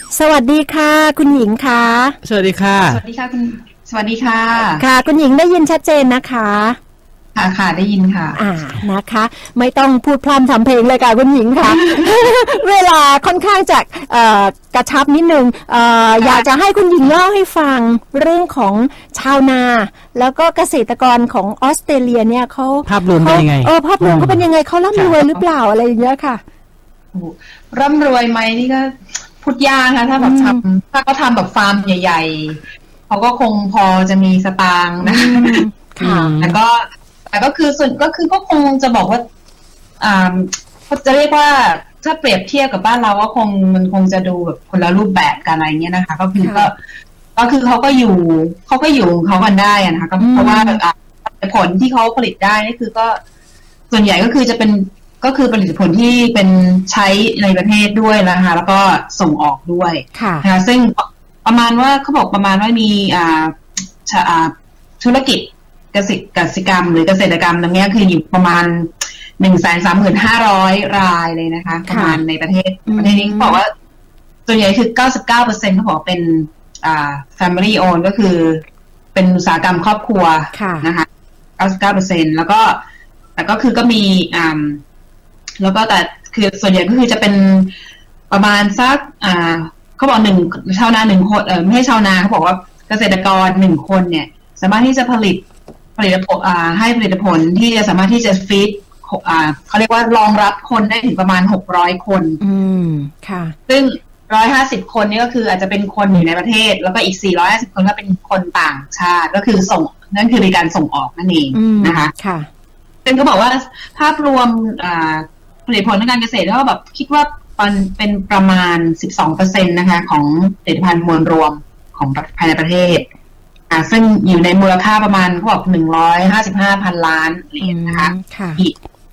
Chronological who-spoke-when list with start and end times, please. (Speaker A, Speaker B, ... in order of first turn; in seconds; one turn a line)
Speaker A: 0.1-2.2
Speaker B: 2.2-3.0
Speaker C: 2.8-4.8
Speaker A: 4.8-6.8
Speaker C: 7.3-8.4
Speaker A: 8.3-26.4
Speaker C: 11.6-12.1
Speaker C: 16.2-16.5
Speaker B: 22.9-25.1
Speaker C: 27.1-35.6
Speaker A: 30.2-30.6
Speaker A: 35.0-36.3
Speaker B: 36.0-36.6
Speaker C: 36.4-39.2
Speaker C: 40.0-46.8
Speaker A: 46.4-46.7
Speaker C: 47.4-53.2
Speaker A: 50.2-50.8
Speaker C: 53.9-73.7
Speaker A: 60.1-60.5
Speaker A: 71.9-72.2
Speaker A: 72.9-73.6
Speaker C: 74.5-78.6
Speaker C: 79.1-81.1
Speaker A: 80.5-80.9
Speaker C: 81.6-82.8
Speaker C: 83.4-84.8
Speaker C: 85.6-87.7
Speaker C: 88.3-95.4
Speaker C: 96.0-102.4
Speaker A: 102.4-103.6
Speaker C: 103.7-112.1
Speaker A: 111.5-112.5
Speaker C: 113.0-123.1
Speaker C: 123.7-128.8
Speaker A: 127.6-128.6